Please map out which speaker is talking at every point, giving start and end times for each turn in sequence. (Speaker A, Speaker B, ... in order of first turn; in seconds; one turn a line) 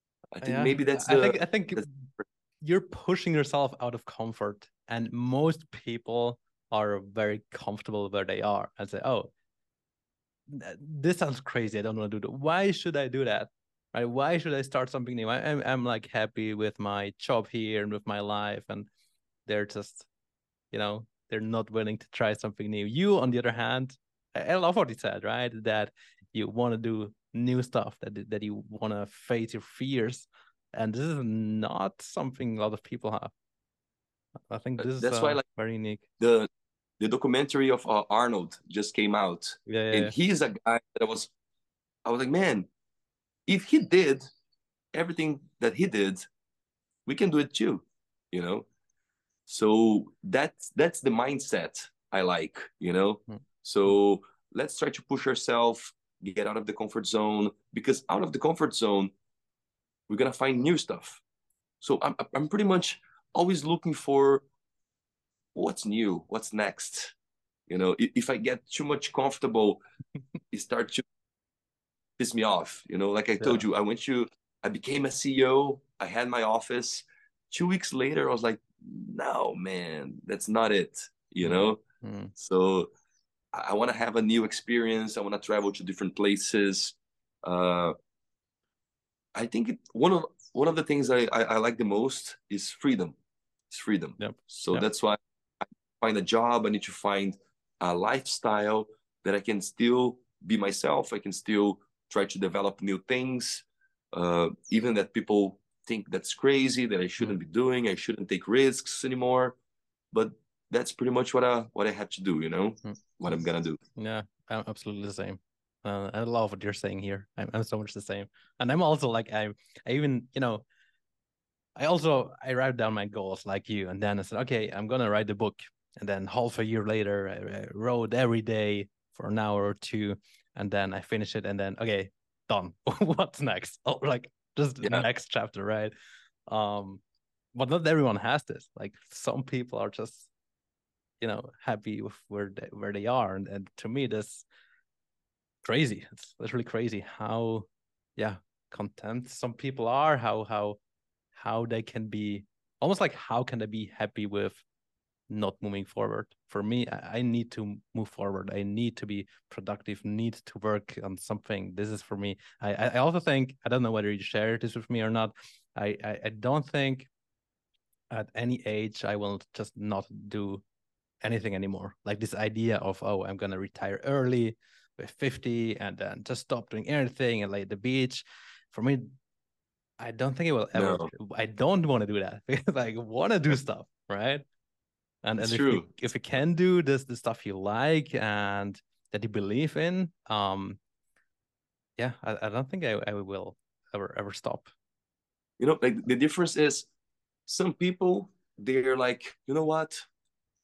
Speaker A: 0.3-2.2
Speaker B: 0.4-1.9
Speaker B: 2.6-9.3
Speaker B: 10.5-18.9
Speaker B: 19.5-20.1
Speaker B: 20.7-33.3
Speaker B: 34.5-36.0
Speaker A: 34.8-35.4
Speaker A: 36.2-36.5
Speaker A: 37.0-41.3
Speaker B: 39.7-40.1
Speaker A: 42.0-42.7
Speaker A: 43.5-44.3
Speaker A: 44.9-46.3
Speaker A: 47.1-48.7
Speaker A: 49.5-59.1
Speaker A: 60.1-61.2
Speaker A: 61.8-64.5
Speaker A: 65.5-67.2
Speaker A: 67.7-69.8
Speaker A: 70.5-71.0
Speaker A: 72.2-81.8
Speaker B: 81.4-82.3
Speaker A: 82.4-82.9
Speaker A: 83.5-88.0
Speaker A: 89.3-93.2
Speaker A: 93.7-109.6
Speaker B: 94.2-94.9
Speaker A: 110.1-113.8
Speaker B: 112.9-113.4
Speaker B: 114.0-120.7
Speaker B: 121.8-135.9
Speaker B: 136.5-137.0
Speaker B: 137.5-140.3
Speaker B: 141.2-144.5
Speaker B: 145.6-147.7
Speaker B: 148.2-150.8
Speaker B: 151.3-154.6
Speaker B: 155.3-167.1
Speaker B: 168.1-170.6
Speaker B: 171.2-179.1
Speaker B: 180.0-184.4
Speaker A: 180.8-181.1
Speaker B: 185.2-190.8
Speaker A: 185.4-185.9
Speaker B: 192.0-194.7
Speaker A: 195.6-196.9
Speaker A: 197.5-200.1